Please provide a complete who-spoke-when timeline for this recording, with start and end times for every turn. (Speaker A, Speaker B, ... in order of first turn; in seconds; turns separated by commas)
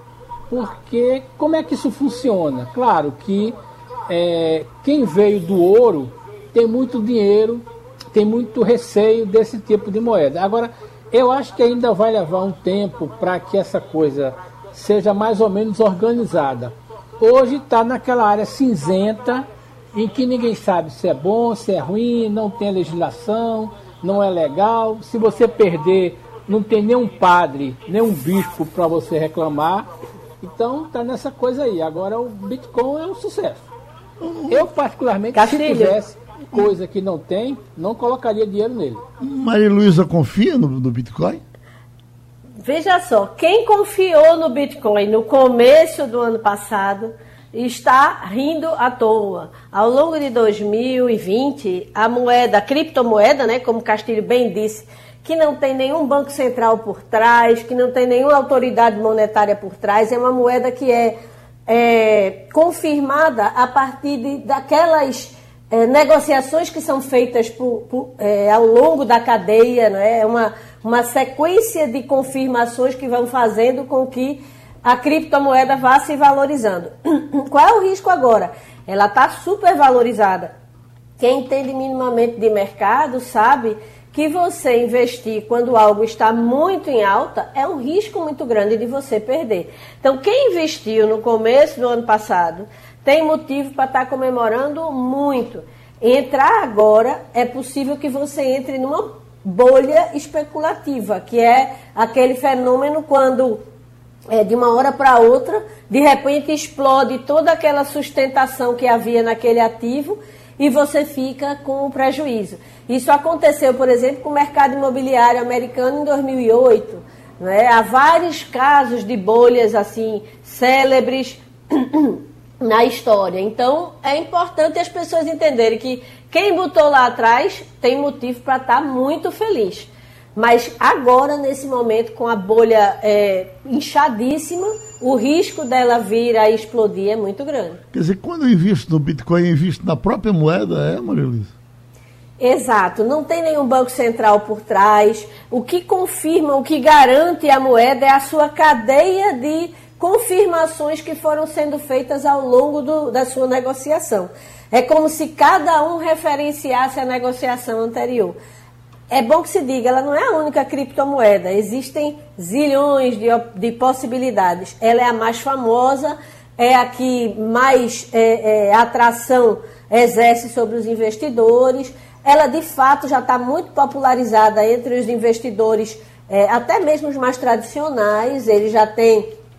Speaker A: 0.5-3.6, Speaker A: 4.1-29.9, Speaker A: 30.4-33.7, Speaker B: 34.2-34.7, Speaker A: 34.5-39.0, Speaker C: 35.3-36.0, Speaker B: 39.2-41.4, Speaker C: 42.6-80.5, Speaker C: 81.2-103.6, Speaker C: 104.3-137.8, Speaker B: 137.9-141.5, Speaker C: 142.4-158.4, Speaker C: 159.1-179.3